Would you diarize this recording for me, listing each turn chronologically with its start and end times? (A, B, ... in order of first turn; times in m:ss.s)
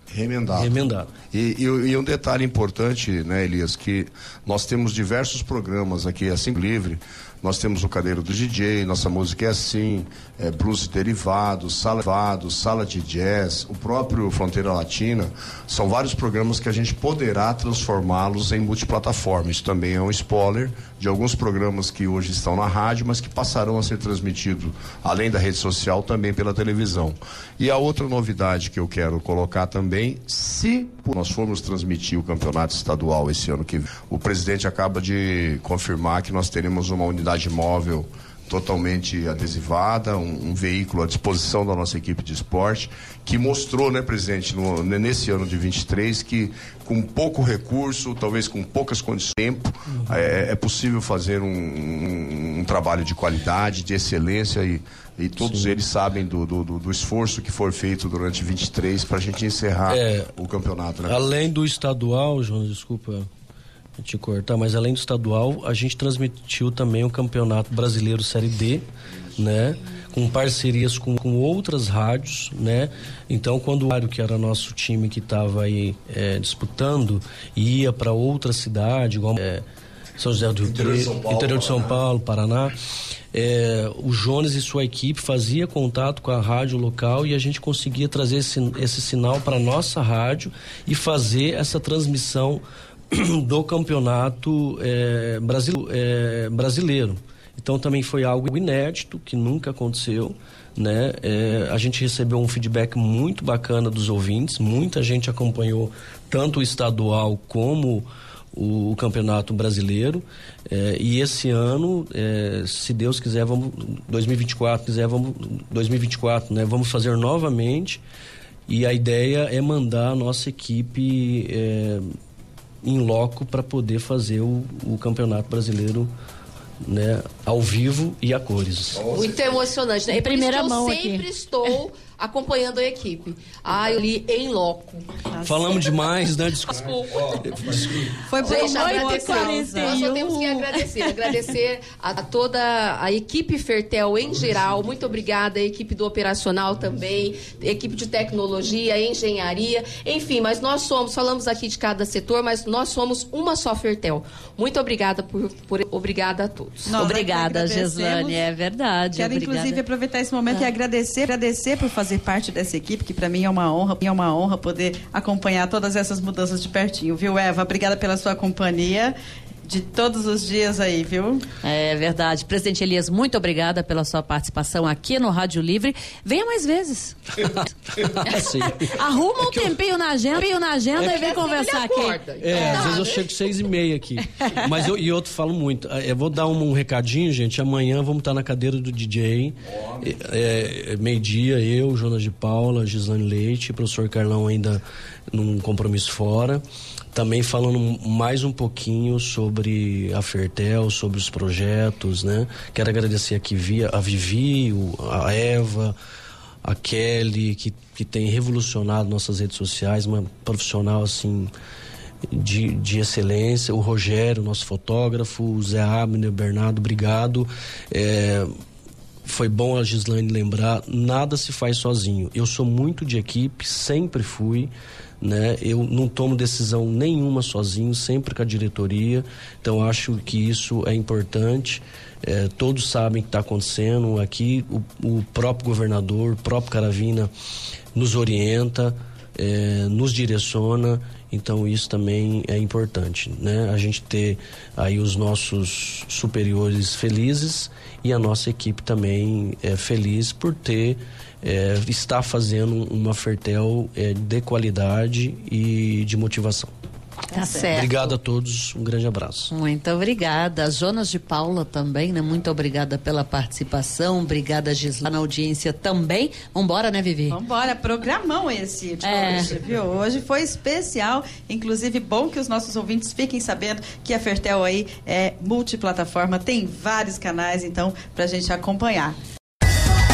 0:00.1-0:00.8 A
0:00.5-0:01.1 B
0:01.3-1:01.2 A
0:55.4-0:55.8 B
0:59.9-1:00.3 B
1:01.1-1:03.3 B
1:04.0-1:08.8 B
1:09.4-1:19.6 B
1:20.2-1:22.8 B
1:20.6-1:22.0 A
1:23.3-1:58.0 B
1:58.7-2:02.1 B
2:02.8-2:06.1 B
2:06.8-2:09.2 B
2:09.1-2:15.2 C
2:10.1-2:11.3 D
2:15.3-2:15.9 E
2:15.4-2:18.2 B
2:16.7-2:17.9 C
2:18.3-2:20.2 E
2:18.4-2:37.0 C
2:18.4-2:20.8 D
2:36.9-2:38.4 E
2:36.9-2:39.8 D
2:39.1-2:51.5 E
2:51.6-3:03.1 D
2:57.4-2:59.0 B
3:01.0-3:03.3 C
3:02.4-3:14.8 B
3:15.3-3:26.0 B
3:26.6-3:31.5 B
3:32.3-3:38.5 B
3:39.2-3:57.3 B
3:58.0-4:16.7 B
4:17.3-4:18.1 D
4:17.3-4:17.7 E
4:17.7-4:19.5 B
4:19.5-4:27.4 D
4:27.3-4:39.2 E
4:29.0-4:29.5 D